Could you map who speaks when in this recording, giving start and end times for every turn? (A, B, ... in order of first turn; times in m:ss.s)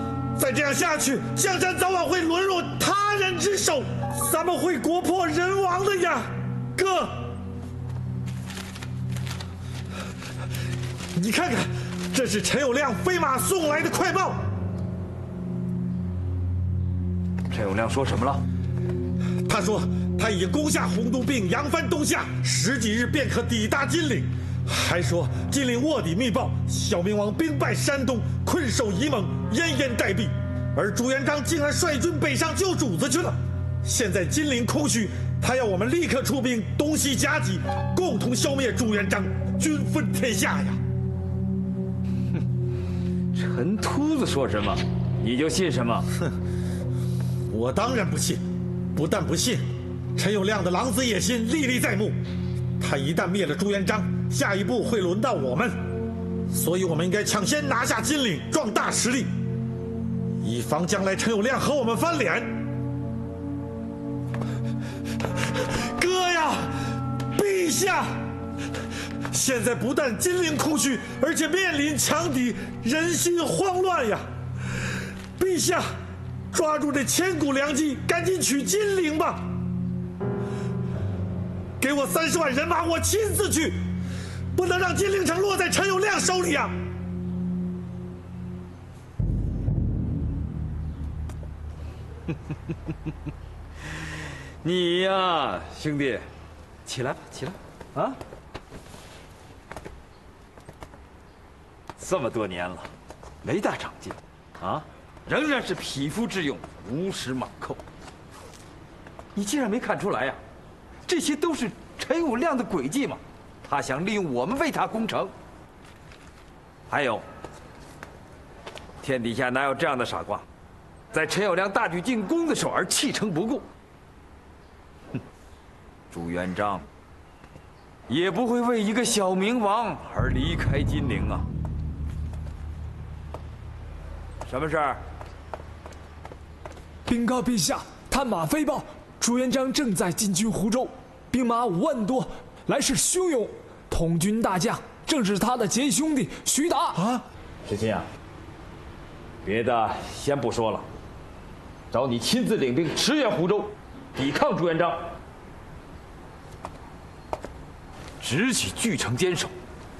0:00.4-0:07.2 A
0:11.1-0:14.4 A
0:17.5-0:18.4 B
0:19.4-0:40.8 A
0:43.3-0:46.1 B
0:47.5-0:48.4 A
0:48.9-0:49.6 A
0:50.2-0:52.2 A
0:52.8-0:55.8 A
0:56.5-0:59.3 A
1:00.4-1:02.5 A
1:06.0-1:06.7 A
1:07.3-1:08.1 A
1:09.3-1:14.2 A
1:15.4-1:15.8 A
1:16.5-1:19.4 A
1:21.8-1:23.8 A
1:24.5-1:26.7 A
1:34.6-1:36.2 B
1:36.8-1:38.2 B
1:42.0-1:42.9 B
1:43.4-1:47.8 B
1:49.3-1:50.4 B
1:51.0-1:55.3 B
1:56.9-1:57.2 B
1:59.0-2:00.4 B
2:01.1-2:03.6 B
2:06.1-2:06.8 B
2:08.1-2:11.5 B
2:14.4-2:15.0 B
2:17.1-2:27.0 C
2:27.6-2:28.0 B
2:29.4-2:30.8 B
2:31.9-2:35.0 B
2:38.2-2:39.5 B